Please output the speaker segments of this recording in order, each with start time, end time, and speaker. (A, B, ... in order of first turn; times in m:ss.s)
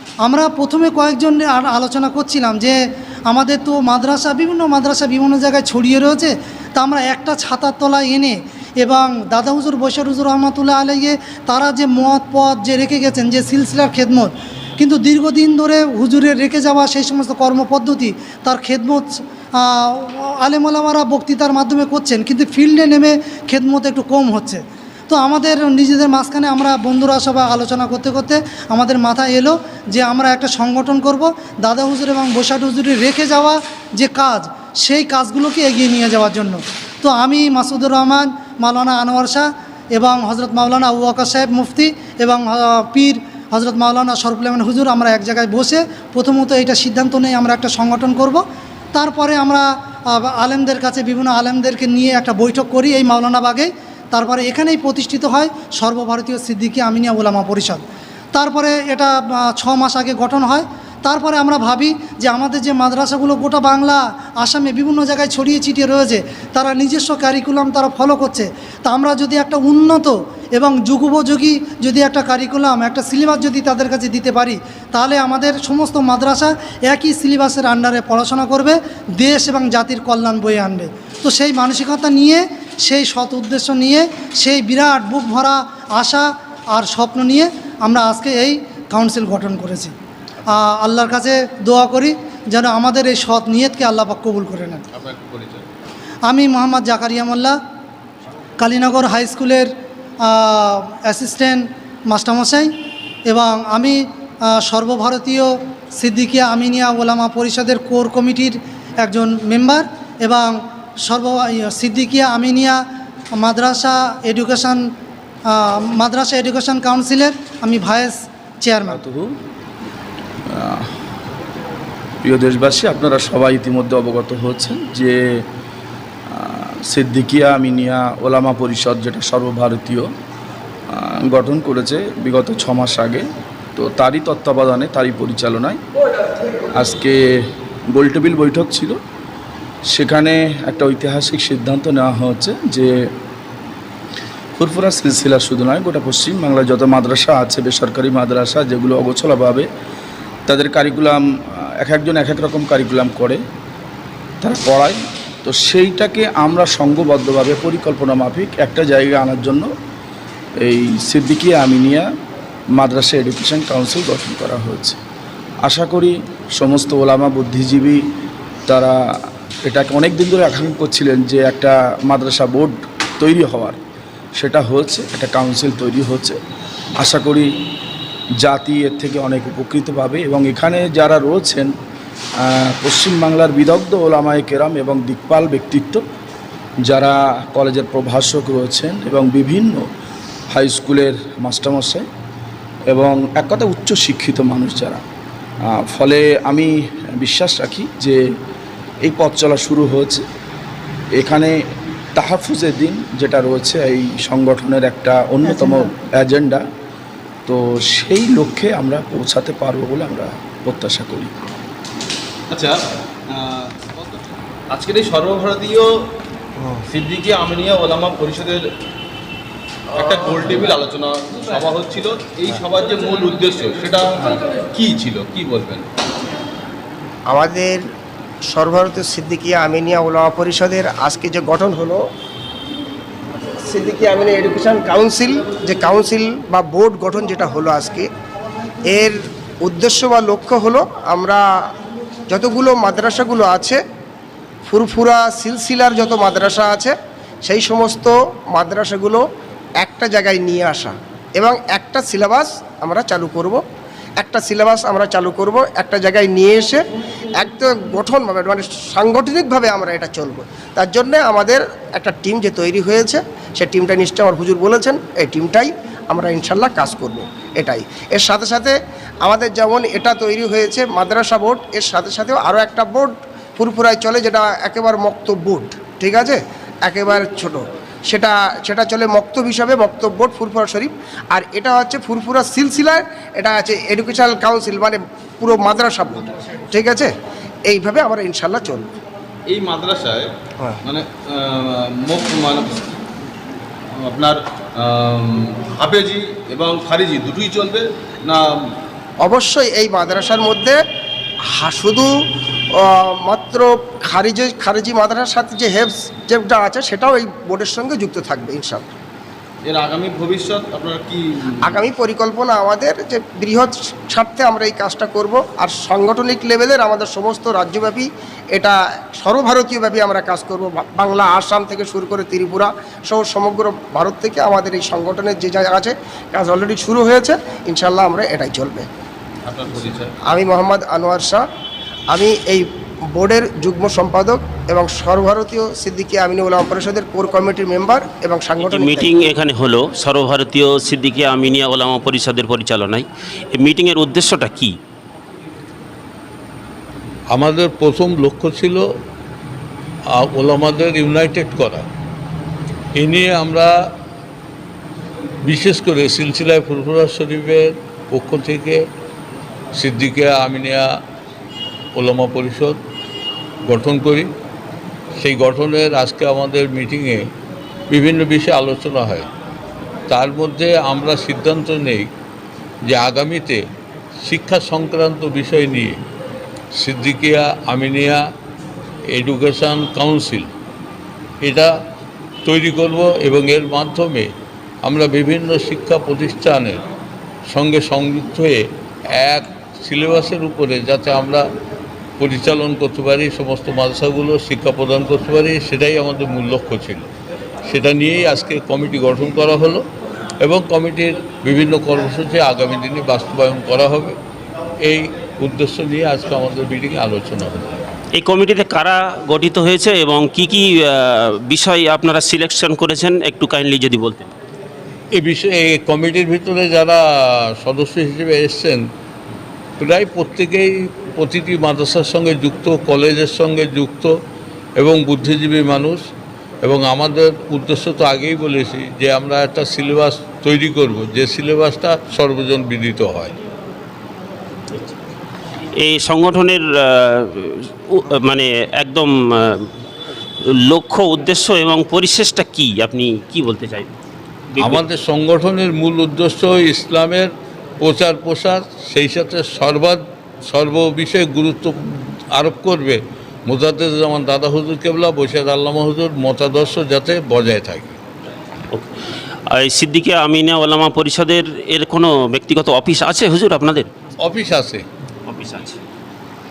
0:00.2-0:48.4 A
0:48.9-1:29.9 A
1:30.5-1:34.8 A
1:34.9-1:35.7 B
1:36.2-1:37.6 A
1:38.6-1:39.7 A
1:40.2-1:42.7 A
1:43.2-1:52.8 A
1:53.4-1:54.8 A
1:55.5-1:59.0 A
1:58.8-1:59.3 C
2:00.5-2:00.9 C
2:02.2-2:05.4 C
2:06.3-2:10.1 C
2:10.9-2:15.8 C
2:16.7-2:19.0 C
2:19.9-2:22.9 C
2:24.6-2:29.7 C
2:30.5-2:33.4 C
2:34.4-2:39.7 C
2:40.6-2:42.1 C
2:42.8-2:45.0 C
2:45.6-2:48.0 C
2:48.7-2:49.0 C
2:49.7-2:53.8 C
2:54.4-2:56.4 C
2:57.0-2:57.5 C
2:58.4-3:01.7 C
3:02.4-3:06.0 C
3:06.8-3:09.9 C
3:10.5-3:12.0 C
3:12.9-3:15.0 C
3:15.7-3:18.2 C
3:19.0-3:20.2 C
3:21.2-3:21.6 C
3:22.2-3:26.6 C
3:25.4-3:25.9 A
3:27.5-3:31.3 C
3:32.5-3:32.8 B
3:33.3-3:35.9 B
3:36.7-3:38.6 B
3:39.9-3:45.8 B
3:47.3-3:47.8 D
3:48.5-3:52.0 D
3:53.6-3:58.1 D
3:58.8-4:01.4 D
4:02.3-4:03.8 D
4:04.6-4:09.2 D
4:09.8-4:13.6 D
4:14.2-4:47.1 D
4:47.6-4:48.9 D
4:49.5-4:50.3 B
4:50.8-4:53.0 B
4:54.0-4:58.5 B
4:59.2-5:00.8 D
5:01.6-5:02.1 D
5:02.8-5:08.9 D
5:09.6-5:11.9 B
5:11.6-5:28.9 D
5:29.4-5:30.1 B
5:30.3-5:31.4 D
5:32.1-5:39.3 D
5:38.8-5:43.0 E
5:43.6-5:44.7 E
5:47.3-5:48.8 F
5:50.1-5:51.8 F
5:52.9-5:53.7 F
5:55.4-5:58.8 F
5:59.7-6:00.8 F
6:02.0-6:02.8 F
6:03.6-6:04.3 F
6:05.2-6:07.3 F
6:07.9-6:09.3 F
6:10.1-6:12.1 F
6:12.8-6:13.6 F
6:14.2-6:16.0 F
6:16.7-6:18.2 F
6:19.1-6:20.5 F
6:21.4-6:21.7 F
6:22.4-6:24.3 F
6:24.8-6:26.8 F
6:27.5-6:28.6 F
6:29.1-6:31.5 F
6:32.2-6:37.1 F
6:37.6-6:39.8 F
6:40.4-6:44.2 F
6:44.8-6:47.8 F
6:48.2-6:50.6 E
6:51.5-6:54.3 E
6:55.1-6:57.0 F
6:57.6-6:58.8 F
6:59.8-7:04.1 F
7:04.8-7:06.0 F
7:06.6-7:13.3 F
7:15.8-7:16.6 E
7:18.0-7:19.1 E
7:20.7-7:23.9 E
7:24.6-7:31.8 F
7:32.3-7:38.0 F
7:39.6-7:43.8 E
7:44.2-7:44.8 F
7:45.3-7:45.8 E